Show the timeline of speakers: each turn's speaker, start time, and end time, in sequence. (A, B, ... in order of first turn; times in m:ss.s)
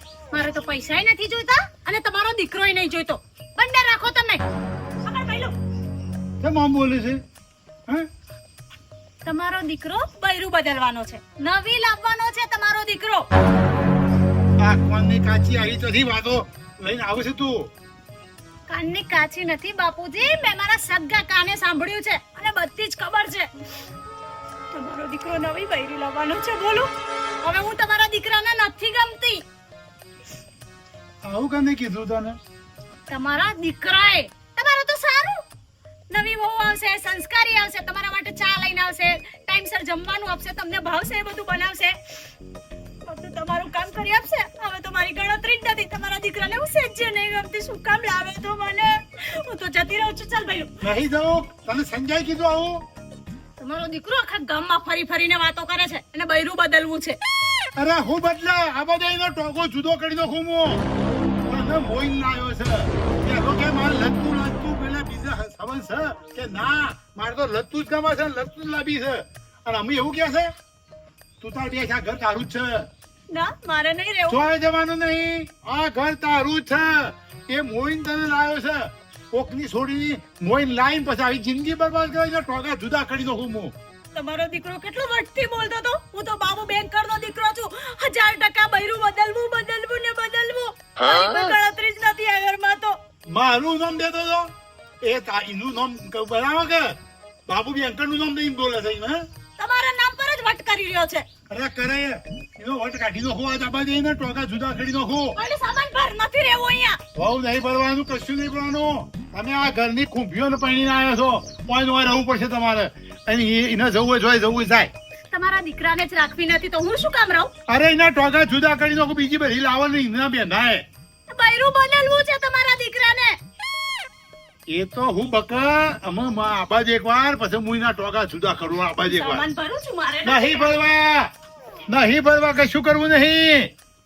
0:00.3-0:04.4 A
0:05.0-0:05.5 A
0:06.4-0:07.2 B
0:09.2-0:13.2 A
0:14.6-0:17.7 B
0:18.7-0:23.5 A
0:24.7-0:26.9 A
0:27.4-0:29.4 A
0:31.2-0:32.4 B
0:33.1-0:35.4 A
0:36.1-0:42.0 A
0:43.0-0:50.7 A
0:50.8-0:52.8 B
0:53.6-0:57.2 A
0:57.8-1:00.8 B
1:01.5-1:10.5 B
1:11.4-1:12.9 B
1:13.3-1:14.5 A
1:14.3-1:23.7 B
1:24.1-1:33.0 A
1:33.3-1:37.0 B
1:37.5-1:39.2 B
1:39.6-1:41.2 A
1:41.5-1:45.4 B
1:45.4-1:47.0 A
1:47.1-1:54.9 B
1:55.3-1:57.5 A
1:57.7-2:00.8 B
2:01.3-2:03.4 A
2:04.7-2:09.5 B
2:09.1-2:10.7 A
2:10.2-2:11.3 B
2:11.9-2:13.7 B